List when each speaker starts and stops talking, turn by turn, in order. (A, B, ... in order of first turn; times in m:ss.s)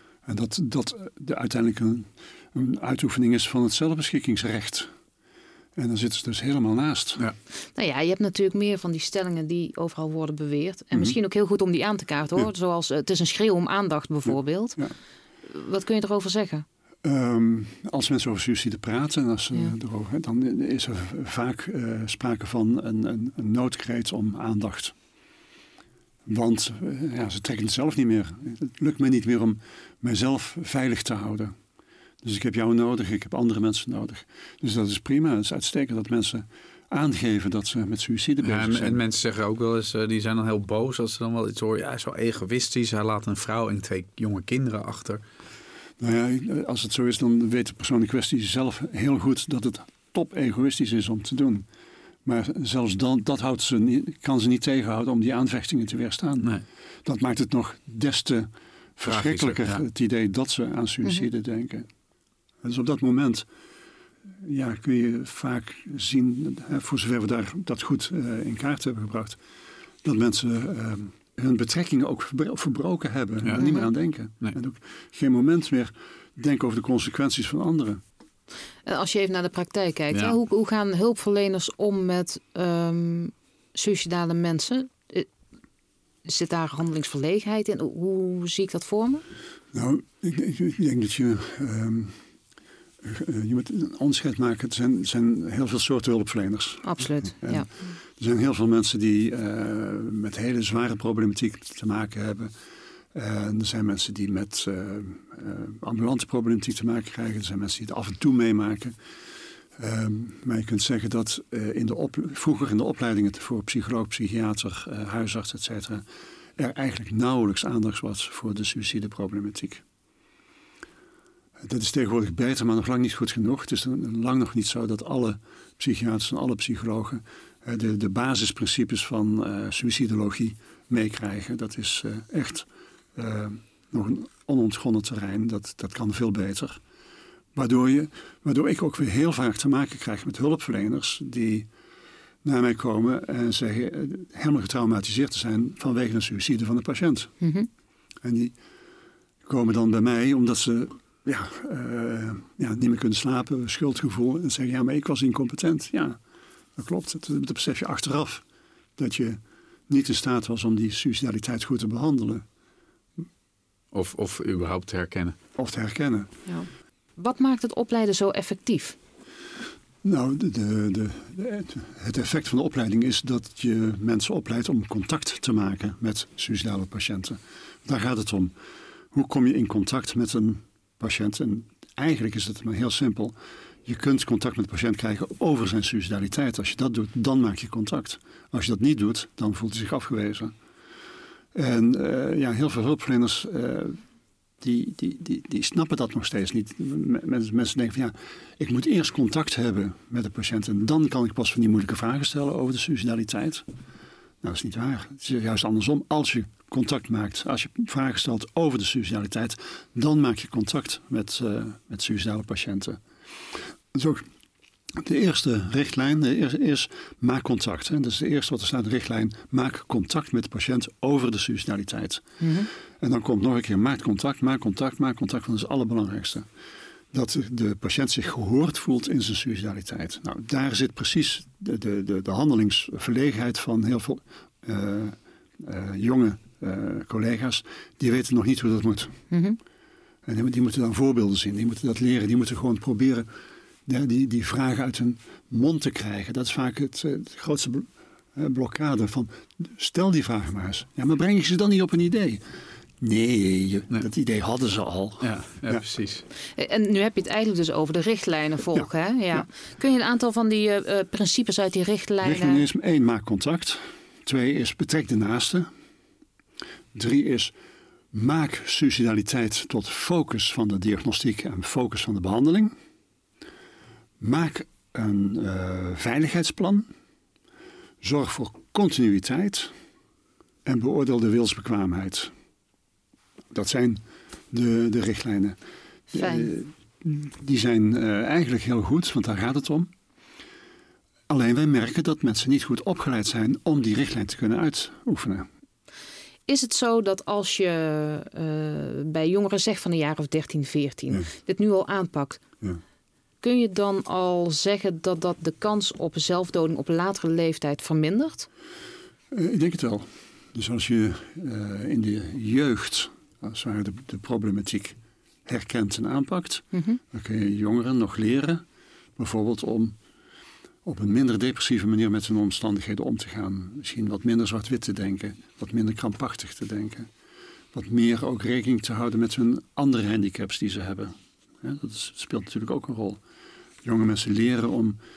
0:00.3-0:04.9 A
0:05.8-0:07.2 A
0:07.7-0:14.8 B
0:15.4-0:16.6 B
0:17.0-0:24.9 A
0:26.2-0:31.5 A
0:32.2-0:39.0 A
0:38.4-0:45.2 C
0:46.0-0:51.6 A
0:52.2-0:56.5 A
0:57.0-1:01.9 A
0:59.1-0:59.8 C
1:02.6-1:03.5 A
1:04.4-1:09.4 A
1:10.0-1:18.0 A
1:13.6-1:13.9 B
1:18.8-1:25.3 B
1:26.2-1:29.2 B
1:29.7-1:32.2 A
1:33.0-1:42.5 A
1:36.8-1:37.7 B
1:43.1-1:49.0 A
1:49.8-1:56.0 A
1:56.6-1:59.8 A
2:01.6-2:16.8 A
2:17.5-2:21.7 A
2:22.4-2:27.3 A
2:27.4-2:27.7 B
2:28.2-2:28.6 A
2:29.4-2:36.2 A
2:36.8-2:38.4 A
2:39.0-2:42.4 A
2:43.9-2:45.4 C
2:45.6-2:46.3 A
2:46.4-2:49.0 B
2:50.0-2:58.5 A
2:59.1-3:10.5 A
3:11.5-3:14.0 A
3:14.6-3:23.6 A
3:24.4-3:33.0 A
3:33.5-3:34.2 A
3:34.9-3:46.5 A
3:42.4-3:42.7 B
3:47.1-3:59.2 A
3:59.3-3:59.6 B
4:00.2-4:03.3 A
4:03.8-4:12.4 A
4:13.0-4:15.8 A
4:15.2-4:16.2 C
4:16.5-4:22.6 B
4:18.7-4:19.4 A
4:22.2-4:25.7 A
4:26.9-4:27.5 A
4:28.1-4:32.7 A
4:34.2-4:36.9 A
4:38.0-4:39.7 A
4:40.6-4:42.3 A
4:43.5-4:45.6 A
4:46.1-4:46.5 B
4:46.1-4:49.9 A
4:51.3-4:55.5 A
4:56.5-5:02.4 B
5:03.4-5:08.5 B
5:09.3-5:18.6 A
5:16.7-5:17.0 B
5:19.2-5:20.0 A
5:20.8-5:27.1 A
5:27.7-5:33.2 A
5:33.8-5:35.0 A